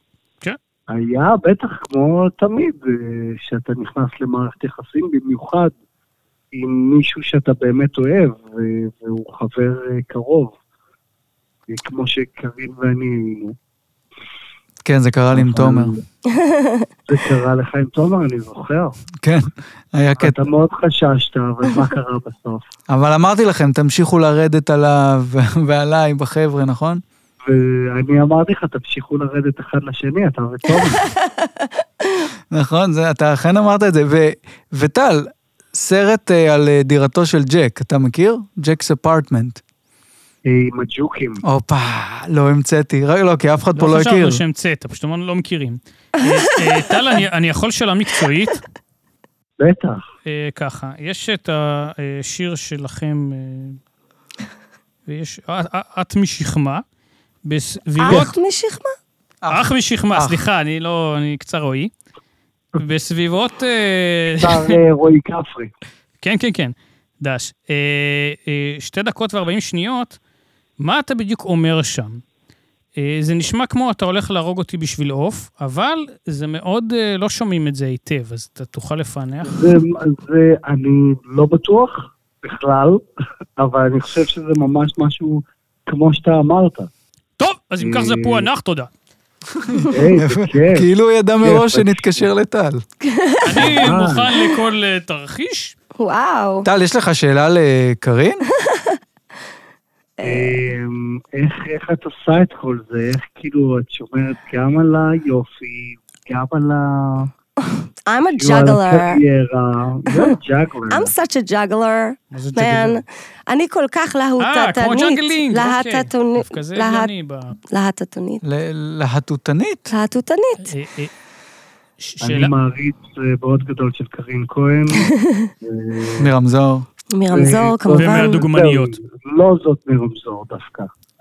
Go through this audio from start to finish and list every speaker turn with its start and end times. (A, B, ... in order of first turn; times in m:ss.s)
0:00.9-0:05.7 A
0:06.5-0:10.6 A
0:11.7-0:13.6 A
0:14.8-0:16.0 B
0:15.3-0:16.0 A
0:16.3-0:16.9 C
0:17.1-0:19.0 A
0:19.2-0:20.5 B
0:20.2-0:22.6 A
0:22.9-0:27.0 B
0:27.4-0:31.1 A
0:31.0-0:32.2 C
0:32.5-0:39.6 B
0:40.4-0:41.4 A
0:41.4-0:44.4 B
0:43.8-0:48.6 D
0:49.6-0:50.0 A
0:50.2-0:53.8 D
0:55.0-0:56.8 D
0:57.4-0:58.3 D
0:58.0-0:58.9 C
0:59.4-1:00.4 B
0:59.5-1:01.9 D
1:02.7-1:04.8 D
1:04.4-1:05.7 A
1:06.2-1:10.2 D
1:10.8-1:12.2 D
1:13.0-1:19.8 D
1:19.4-1:23.0 A
1:23.6-1:26.9 A
1:27.4-1:28.9 D
1:27.8-1:28.5 A
1:29.5-1:32.8 B
1:29.9-1:30.9 A
1:31.4-1:32.3 A
1:33.0-1:33.8 C
1:33.4-1:35.7 D
1:33.6-1:34.4 A
1:36.0-1:36.7 C
1:36.6-1:38.4 B
1:38.5-1:39.0 C
1:40.2-1:40.6 C
1:40.2-1:47.3 A
1:47.6-1:49.2 C
1:48.4-1:51.1 A
1:50.9-1:57.1 C
1:52.3-1:53.0 D
1:54.4-1:57.6 D
1:57.7-1:58.4 C
1:58.4-1:59.9 B
1:59.9-2:00.7 C
2:00.6-2:01.1 D
2:02.0-2:02.5 D
2:02.2-2:06.3 A
2:05.0-2:05.5 C
2:06.2-2:06.8 B
2:07.1-2:08.4 C
2:07.3-2:10.9 A
2:07.9-2:09.0 D